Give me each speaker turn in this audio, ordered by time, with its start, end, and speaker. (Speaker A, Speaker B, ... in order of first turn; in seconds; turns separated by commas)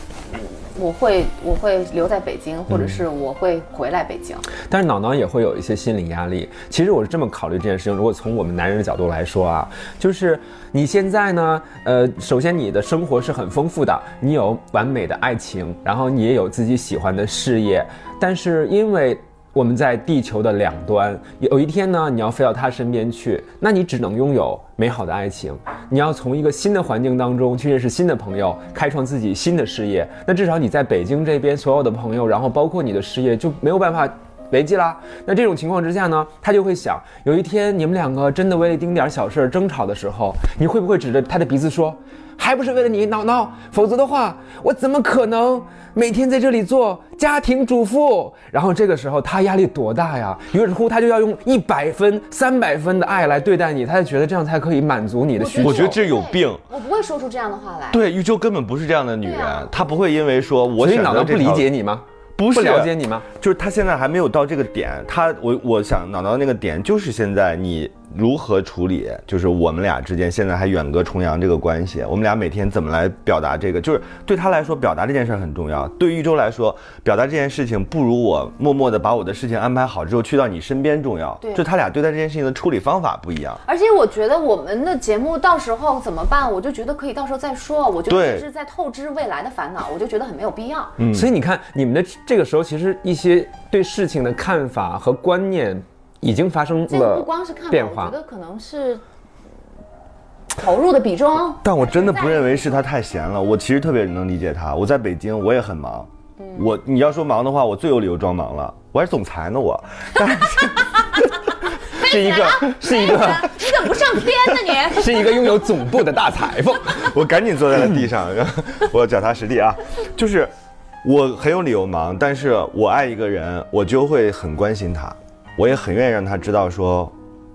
Speaker A: 0.3-4.5, Speaker B: 2.7-3.0, Speaker B: 4.7-56.0, Speaker A: 55.4-58.0, Speaker C: 55.6-56.6, Speaker C: 57.9-61.7, Speaker A: 59.2-59.8, Speaker B: 60.8-63.2, Speaker C: 62.4-83.6, Speaker A: 83.7-91.0, Speaker C: 88.1-88.5, Speaker C: 91.0-91.3, Speaker B: 91.1-98.2, Speaker A: 96.9-99.0, Speaker A: 100.6-102.9, Speaker C: 101.6-111.0, Speaker A: 106.4-106.7, Speaker B: 111.9-114.0, Speaker A: 111.9-115.7, Speaker B: 114.7-117.1, Speaker C: 116.9-120.5, Speaker C: 121.0-127.1